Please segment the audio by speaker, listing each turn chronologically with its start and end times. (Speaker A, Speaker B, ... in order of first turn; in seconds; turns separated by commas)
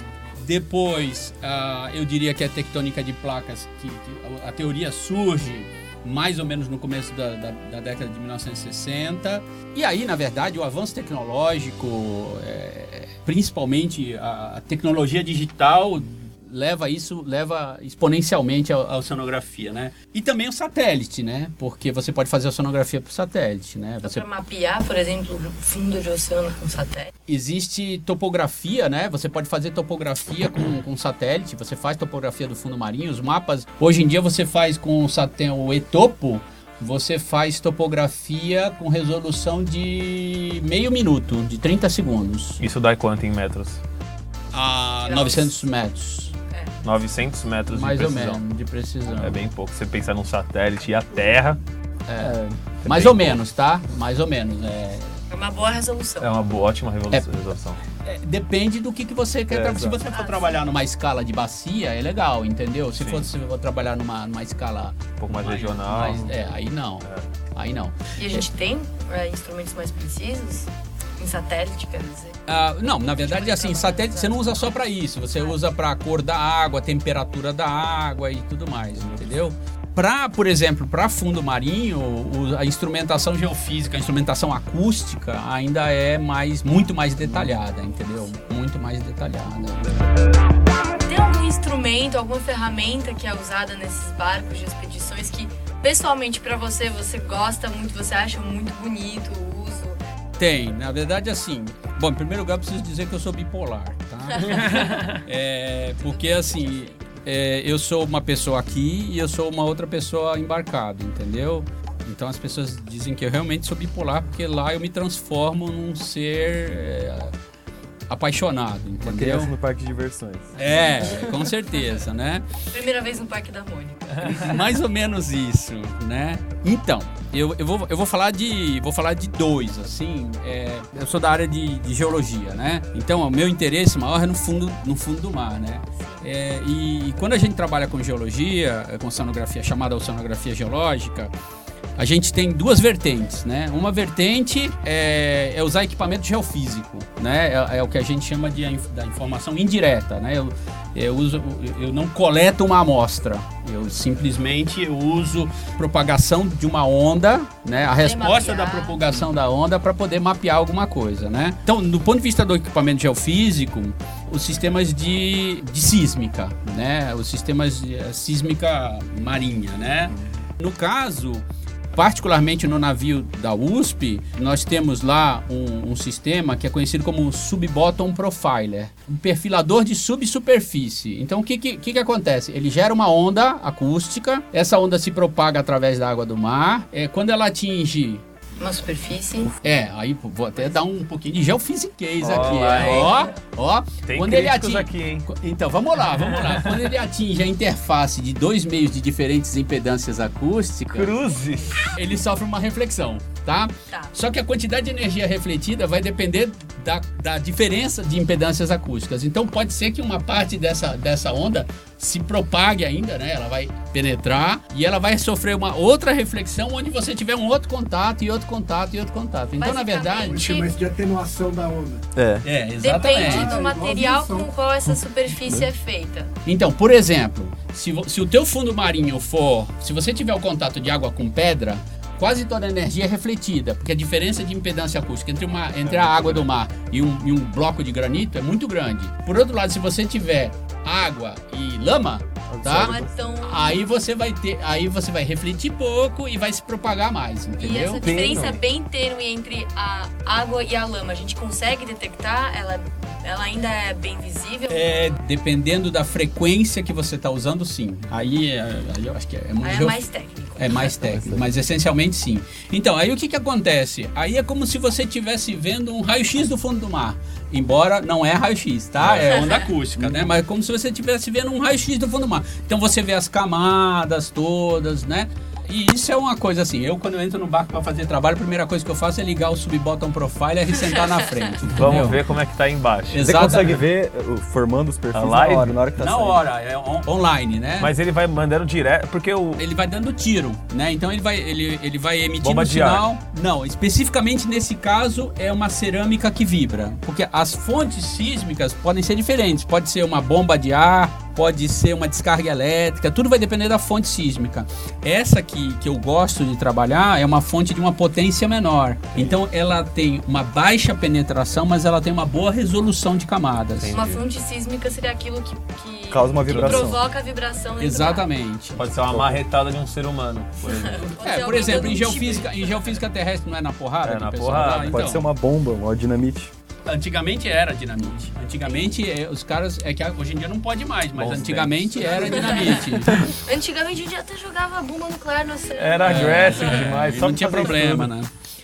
Speaker A: 0.4-24.2, Speaker B: 24.0-27.1, Speaker A: 27.3-42.6, Speaker C: 42.6-43.8, Speaker A: 44.5-46.4, Speaker B: 45.0-45.6, Speaker B: 46.5-46.8, Speaker C: 46.8-48.4, Speaker A: 47.7-49.4, Speaker C: 49.1-51.6, Speaker A: 52.1-55.2, Speaker C: 52.8-53.4, Speaker B: 55.3-56.3, Speaker C: 56.2-57.8, Speaker A: 58.0-68.4, Speaker C: 59.5-60.0, Speaker B: 60.1-60.7, Speaker C: 63.0-63.3, Speaker C: 65.2-66.3, Speaker C: 67.0-67.3, Speaker B: 68.2-72.4, Speaker A: 72.5-90.0, Speaker B: 73.2-74.8, Speaker B: 75.3-75.6, Speaker D: 87.2-87.6, Speaker B: 88.2-88.5, Speaker B: 91.1-100.0, Speaker A: 100.4-117.3, Speaker B: 104.3-105.2, Speaker C: 104.4-105.2, Speaker B: 106.0-107.2, Speaker A: 118.1-119.5, Speaker D: 119.0-121.2, Speaker A: 120.6-122.4, Speaker B: 122.7-124.2, Speaker A: 124.2-141.3, Speaker A: 142.0-188.2, Speaker B: 158.0-159.2, Speaker D: 170.1-170.4, Speaker B: 188.6-189.5, Speaker A: 189.6-201.1, Speaker C: 192.2-193.2, Speaker B: 192.6-193.3, Speaker C: 194.0-195.3, Speaker C: 196.1-196.9, Speaker C: 200.9-201.9, Speaker A: 201.9-220.4, Speaker B: 203.9-204.2, Speaker B: 219.6-220.7, Speaker E: 220.3-222.0, Speaker D: 222.2-222.4, Speaker A: 222.4-223.6, Speaker B: 222.8-226.3, Speaker E: 223.1-224.5, Speaker A: 226.4-248.2, Speaker C: 235.8-236.5, Speaker D: 242.5-243.3, Speaker B: 242.7-243.8, Speaker B: 247.6-255.2, Speaker C: 248.0-248.6, Speaker A: 254.7-260.0, Speaker B: 259.6-260.9, Speaker A: 260.6-282.2, Speaker D: 260.8-261.5, Speaker C: 269.0-269.4, Speaker B: 269.3-269.6, Speaker C: 281.7-283.8, Speaker A: 283.1-283.8, Speaker D: 283.2-286.4, Speaker C: 285.1-285.7, Speaker A: 286.0-287.9, Speaker C: 287.8-289.6, Speaker A: 289.6-313.9, Speaker C: 292.4-293.1, Speaker C: 313.7-314.2, Speaker B: 313.9-318.3, Speaker D: 316.1-317.0, Speaker C: 316.5-317.0, Speaker A: 317.8-318.9, Speaker C: 318.8-321.1, Speaker D: 319.1-319.4, Speaker B: 320.6-323.0, Speaker A: 321.0-325.3, Speaker C: 324.0-325.1, Speaker D: 324.8-326.5, Speaker A: 326.9-333.3, Speaker B: 328.1-328.9, Speaker C: 331.1-332.9, Speaker B: 332.2-336.9, Speaker C: 335.8-338.1, Speaker A: 336.0-338.3